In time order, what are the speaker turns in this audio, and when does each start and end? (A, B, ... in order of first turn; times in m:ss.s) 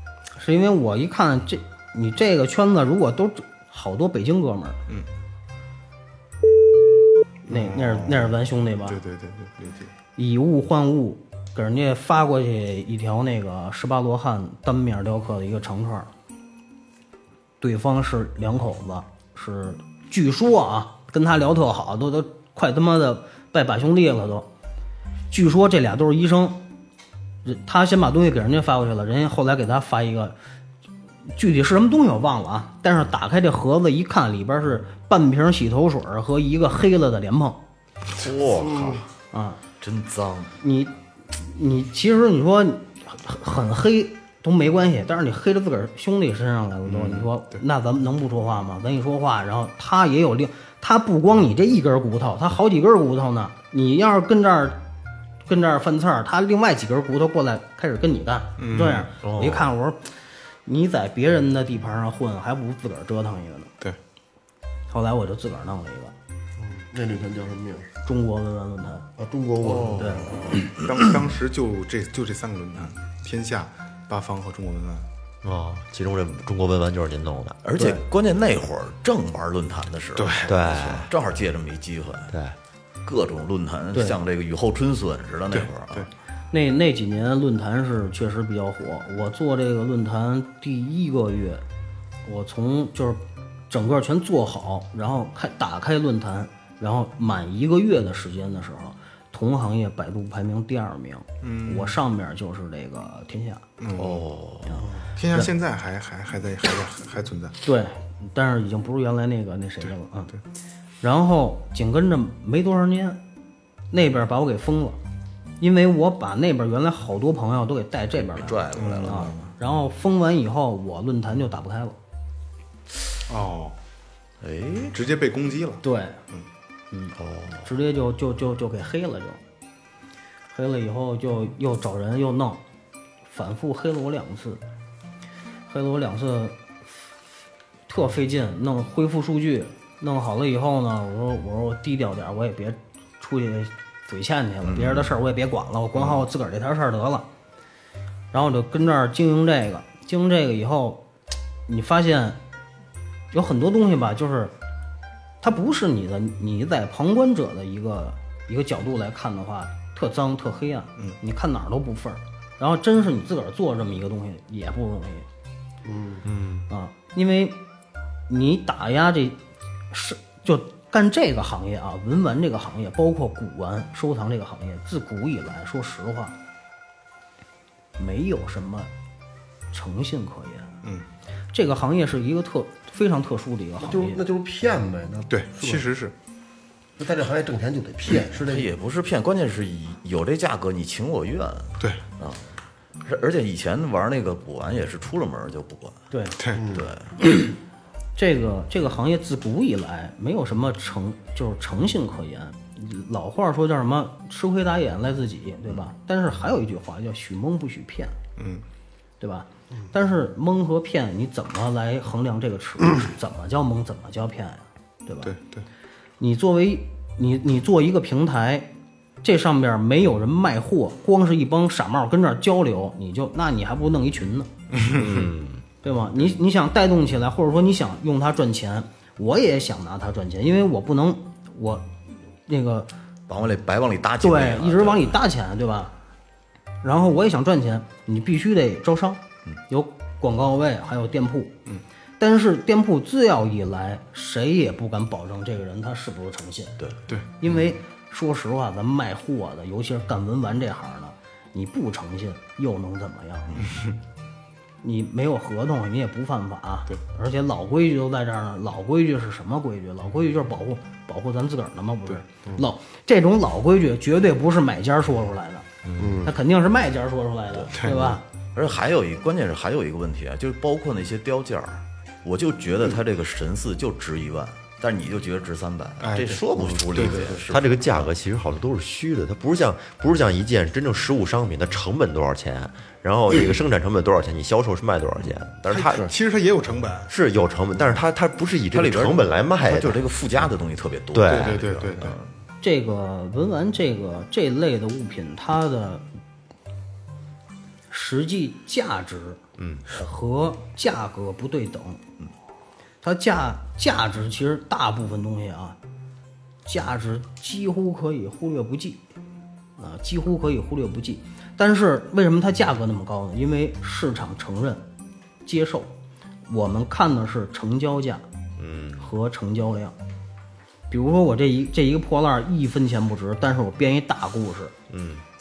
0:00.4-0:04.8 A
0:07.5-0:08.4 B
0:07.5-0:09.0 A
0:08.9-0:09.9 B
0:10.2-0:16.1 A
0:17.6-0:24.5 A
0:25.3-0:26.6 A
0:27.4-0:30.4 A
0:31.3-0:37.6 A
0:38.2-0:39.1 C
0:39.3-0:39.6 A
0:39.8-0:40.6 C
0:40.6-0:54.8 A
0:46.8-0:47.3 B
0:55.5-1:00.1 A
0:58.6-0:59.1 B
0:59.2-0:59.7 D
1:00.7-1:03.7 A
1:04.9-1:06.2 A
1:06.6-1:07.9 E
1:08.0-1:09.1 A
1:09.2-1:10.6 E
1:09.6-1:10.4 C
1:10.0-1:10.4 A
1:10.8-1:15.1 B
1:15.4-1:17.6 D
1:17.6-1:22.3 C
1:17.8-1:18.0 A
1:20.2-1:20.5 B
1:20.5-1:21.1 D
1:22.3-1:22.6 D
1:23.0-1:26.1 C
1:25.5-1:26.1 B
1:26.5-1:31.6 A
1:32.2-1:43.6 A
1:41.4-1:42.0 B
1:43.8-1:44.3 B
1:44.0-1:44.7 C
1:44.6-1:45.5 A
1:45.2-1:47.6 B
1:47.6-1:50.3 A
1:51.0-1:53.2 A
1:53.9-1:55.0 A
1:55.6-2:02.0 A
1:58.3-1:59.4 C
1:58.7-1:59.5 B
2:03.3-2:03.8 B
2:04.4-2:05.0 C
2:04.9-2:06.4 B
2:05.8-2:06.2 A
2:06.9-2:09.4 A
2:07.2-2:07.7 C
2:10.5-2:12.6 A
2:13.3-2:14.6 A
2:15.7-2:16.6 A
2:17.9-2:27.3 A
2:24.6-2:25.1 C
2:26.0-2:26.2 B
2:28.3-2:31.0 A
2:31.7-2:32.4 A
2:33.3-2:34.5 A
2:35.4-2:45.3 A
2:45.8-2:46.2 E
2:46.4-2:46.6 B
2:46.7-2:47.6 A
2:48.3-2:56.4 A
2:58.0-2:58.9 A
2:59.7-3:00.8 A
3:01.5-3:04.2 A
3:03.8-3:05.8 E
3:05.3-3:06.1 B
3:07.0-3:08.7 E
3:08.4-3:12.5 C
3:13.0-3:16.0 C
3:16.1-3:16.4 A
3:16.6-3:16.9 E
3:16.7-3:17.1 C
3:18.2-3:28.2 A
3:28.4-3:28.6 B
3:29.2-3:35.3 A
3:35.2-3:35.6 B
3:36.2-3:38.7 A
3:39.2-3:44.5 A
3:44.7-3:45.3 B
3:45.0-3:45.6 C
3:45.8-3:51.9 A
3:52.5-3:52.9 A
3:53.3-3:55.2 C
3:54.2-3:55.9 A
3:56.8-4:01.5 A
4:02.2-4:06.8 A
4:07.1-4:07.6 B
4:07.4-4:13.7 A
4:13.6-4:13.9 B
4:14.8-4:25.7 A
4:25.8-4:26.3 B
4:26.0-4:26.3 E
4:26.2-4:28.2 A
4:27.5-4:38.1 C
4:36.0-4:37.4 B
4:37.4-4:46.1 D
4:45.7-4:47.1 B
4:47.1-4:50.0 D
4:48.7-4:52.3 C
4:51.1-4:51.7 D
4:51.3-4:52.2 B
4:52.6-4:56.0 A
4:57.9-5:02.0 A
5:03.0-5:05.8 A
5:06.7-5:09.0 A
5:09.8-5:14.8 A
5:15.4-5:15.9 A
5:16.5-5:18.2 A
5:18.6-5:18.9 B
5:19.0-5:20.0 A
5:20.9-5:24.7 A
5:24.9-5:25.2 B